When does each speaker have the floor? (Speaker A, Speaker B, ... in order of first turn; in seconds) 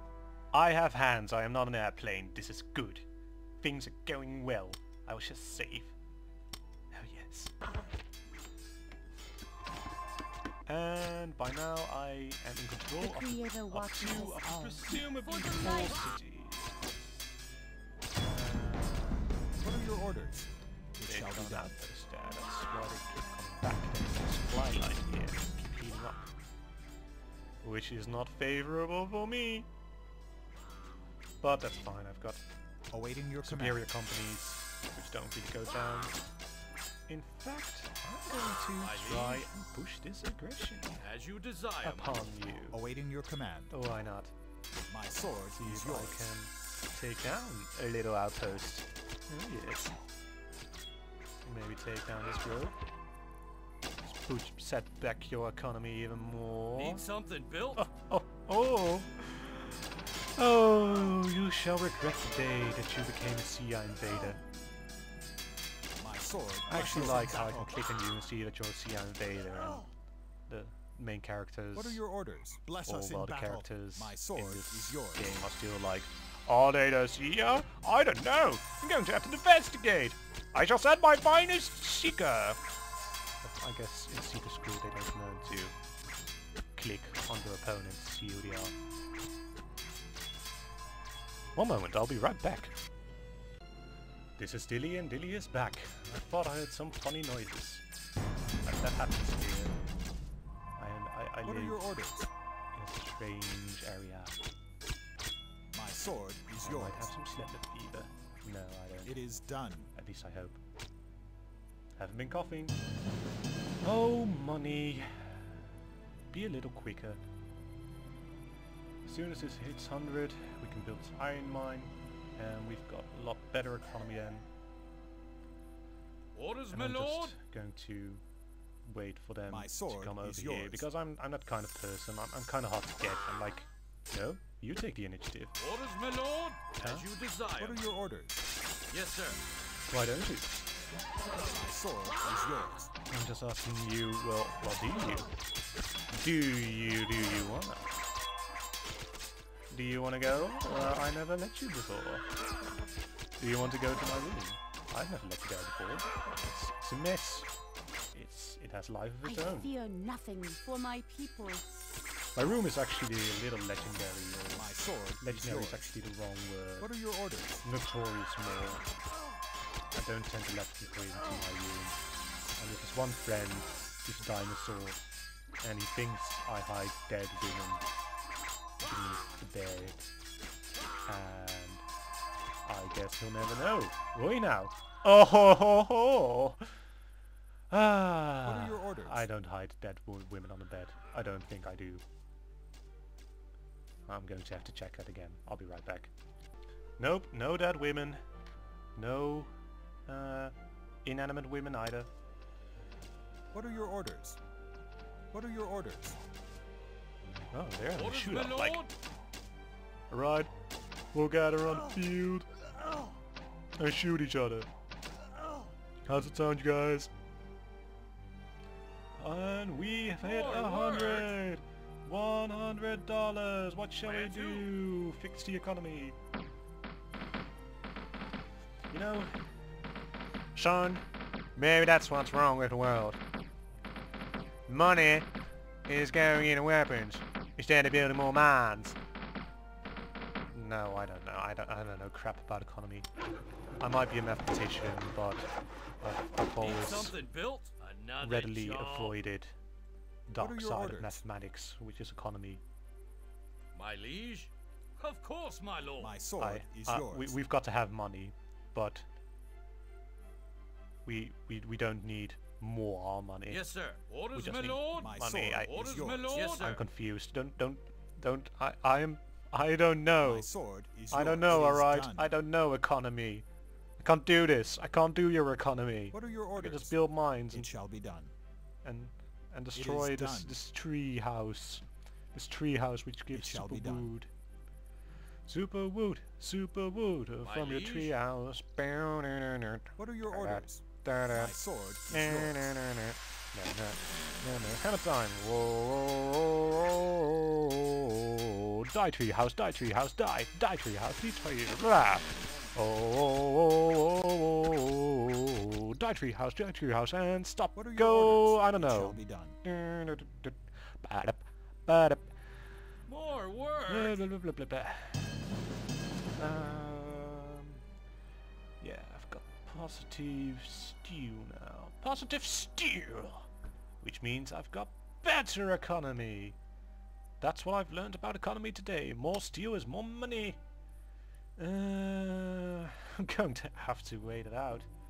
Speaker A: 0.5-3.1, 3.6-5.9, 6.9-7.6, 10.7-16.8, 18.2-19.3, 21.0-26.3, 27.6-29.7, 31.4-32.4, 33.4-36.1, 37.1-41.0, 41.8-42.8, 43.7-44.3, 45.6-50.0, 51.4-52.8, 54.0-57.0, 57.8-59.8, 60.4-64.4, 66.7-69.9, 70.5-72.0, 72.8-82.6, 83.4-85.7, 86.8-88.7, 91.5-92.7, 94.4-97.8, 98.6-99.8, 100.8-101.8, 102.7-104.4, 106.6-109.2, 110.0-110.6, 112.0-112.8, 113.8-115.5, 116.3-117.2, 119.0-124.5, 126.7-128.2, 128.8-135.5, 136.8-137.1, 139.9-140.6, 143.1-145.3, 146.1-148.0, 149.7-152.3, 153.4-157.5, 158.1-159.7, 162.3-166.9, 167.6-168.8, 169.9-172.0, 172.6-175.0, 175.6-177.8, 178.8-180.0, 181.1-181.8, 182.6-186.7, 187.7-192.0, 194.1-196.1, 197.0-198.2, 199.0-199.6, 200.1-202.1, 207.5-208.8, 210.1-210.5, 211.1-212.5, 213.8-214.7, 216.1-217.1, 219.2-226.2, 228.9-229.3, 230.5-231.0, 231.6-233.2, 234.7-235.3, 235.9-239.0, 240.5-243.1, 243.8-245.5, 246.0-247.2, 248.2-249.5, 250.3-252.6, 256.4-259.1, 261.1-263.7, 264.3-270.5, 271.1-273.4, 274.0-277.7, 278.8-284.3, 285.5-291.6, 292.1-312.3, 313.9-315.3, 316.4-317.8, 318.8-323.5, 324.0-326.6, 327.4-330.6, 331.6-334.9
Speaker B: 13.0-16.0, 159.2-161.7
Speaker C: 19.6-21.8, 32.9-33.8, 42.7-43.7, 44.9-46.3, 66.0-67.7, 71.8-75.3, 101.5-102.3, 105.7-107.1, 109.0-109.9, 129.5-130.9, 137.6-138.4, 141.5-142.9, 164.6-165.9, 166.8-167.6, 188.4-189.3, 203.5-204.4, 205.3-206.2, 250.4-251.2, 256.0-257.4, 264.9-266.5, 270.2-272.4, 276.1-276.9, 277.5-278.3, 279.8-280.6, 283.3-284.1, 290.0-292.7, 307.8-309.6
Speaker D: 38.8-39.5, 41.0-42.2, 56.8-57.9, 126.3-127.4, 135.6-137.8, 138.9-139.4, 207.9-208.9, 220.2-221.3, 224.0-224.7, 246.6-249.2, 253.8-256.2, 263.5-265.1, 265.7-266.8, 287.4-288.1, 313.1-314.2